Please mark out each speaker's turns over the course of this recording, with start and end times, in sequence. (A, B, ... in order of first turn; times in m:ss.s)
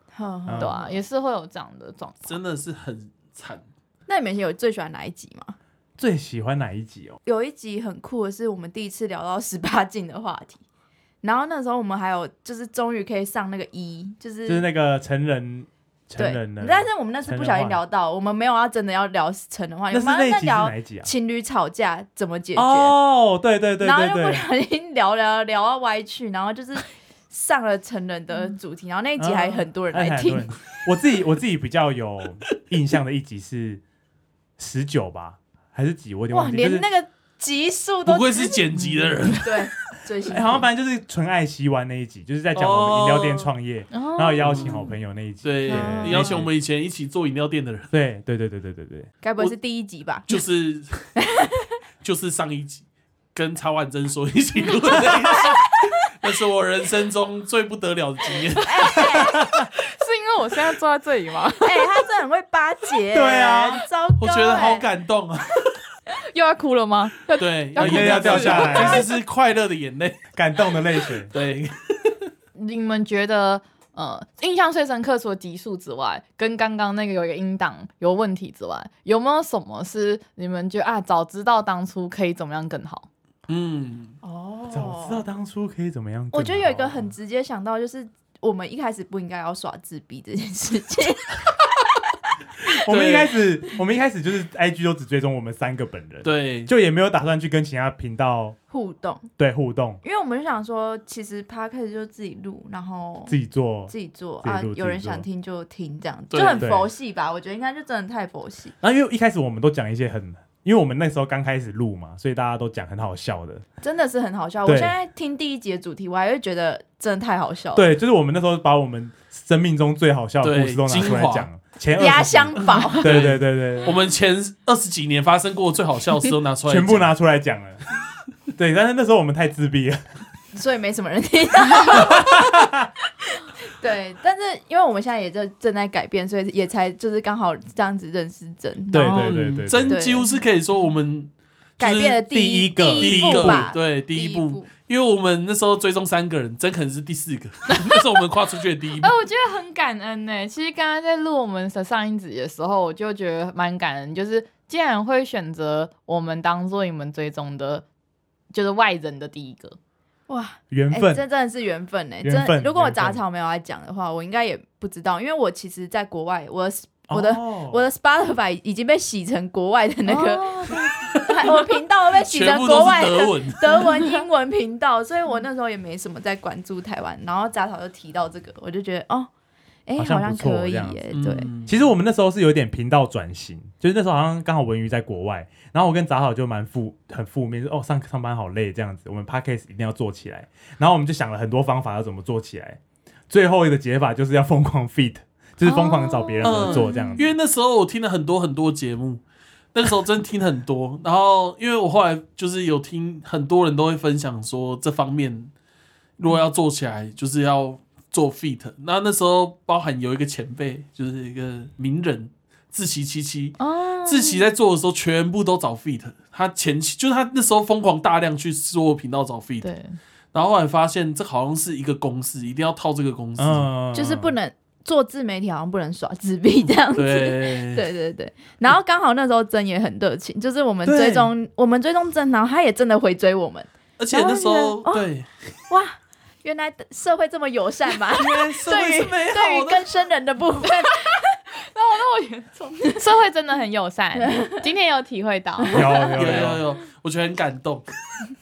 0:00.1-0:01.0 A
0:00.5-0:00.7 B
0:00.6-0:02.3 C
0:02.2-0:03.6 D
0:04.1-0:05.6 A
0:06.0-0:07.2 B
0:07.2-0:10.6 A
0:11.2-0:14.7 A
0:14.4-0:17.8 B
0:16.2-0:23.0 A
0:19.9-0:21.1 B
0:22.6-0:24.4 B
0:23.8-0:30.5 A
0:29.2-0:33.8 B
0:34.6-0:36.8 B
0:36.3-0:38.8 A
0:38.0-0:39.7 D
0:39.3-0:40.7 A
0:40.3-0:46.5 B
0:42.5-0:43.5 D
0:43.9-0:44.5 C
0:44.4-0:44.8 D
0:45.4-0:47.9 D
0:45.7-0:46.3 A
0:45.8-0:46.3 C
0:47.9-0:49.1 B
0:49.2-0:50.3 A
0:50.3-0:51.1 D
0:51.2-0:51.7 A
0:52.0-0:58.7 D
0:55.3-0:55.6 A
0:58.6-0:59.4 A
0:58.8-1:02.0 C
0:59.2-0:59.6 B
1:01.6-1:04.8 A
1:03.1-1:03.8 B
1:04.2-1:05.8 D
1:06.3-1:09.0 C
1:07.4-1:10.2 D
1:07.8-1:09.0 B
1:08.7-1:09.0 A
1:10.4-1:11.3 B
1:11.3-1:12.3 D
1:12.6-1:23.1 C
1:23.5-1:24.1 D
1:24.2-1:25.2 A
1:24.7-1:27.1 B
1:26.3-1:31.3 A
1:32.8-1:33.3 D
1:32.8-1:38.6 B
1:36.2-1:36.7 D
1:38.7-1:39.3 A
1:39.4-1:40.0 B
1:40.0-1:43.3 A
1:43.3-1:45.2 B
1:43.9-1:48.7 A
1:46.3-1:46.7 D
1:46.6-1:46.9 B
1:48.8-1:53.6 B
1:53.8-1:57.9 A
1:54.6-1:54.9 B
1:57.8-2:04.0 B
2:00.4-2:01.5 D
2:02.0-2:03.1 A
2:02.6-2:07.1 D
2:06.7-2:07.8 B
2:08.5-2:10.0 B
2:10.5-2:12.7 A
2:11.9-2:12.9 B
2:13.3-2:20.3 A
2:18.9-2:20.0 B
2:19.0-2:22.2 D
2:21.8-2:24.7 A
2:22.2-2:23.7 B
2:22.8-2:29.1 D
2:29.0-2:37.8 C
2:38.5-2:39.8 C
2:40.3-2:59.3 A
2:40.7-2:41.2 B
2:42.2-2:43.2 B
2:47.1-2:47.8 B
2:50.0-2:50.9 C
2:52.2-2:53.8 D
2:59.9-3:01.5 A
3:00.0-3:01.0 B
3:01.1-3:01.7 D
3:01.6-3:12.8 B
3:13.3-3:17.3 B
3:15.6-3:16.4 C
3:16.4-3:19.2 D
3:16.6-3:17.3 A
3:19.7-3:25.5 D
3:26.2-3:39.7 D
3:33.8-3:34.4 A
3:39.6-3:40.0 C
3:40.3-3:43.6 D
3:43.4-3:44.3 B
3:43.9-3:55.0 A
3:47.0-3:47.8 D
3:50.8-3:51.3 B
3:54.0-3:55.3 D
3:55.7-4:01.2 A
3:58.1-3:59.8 D
4:01.7-4:06.1 C
4:04.2-4:04.5 A
4:05.7-4:06.6 B
4:06.1-4:07.8 D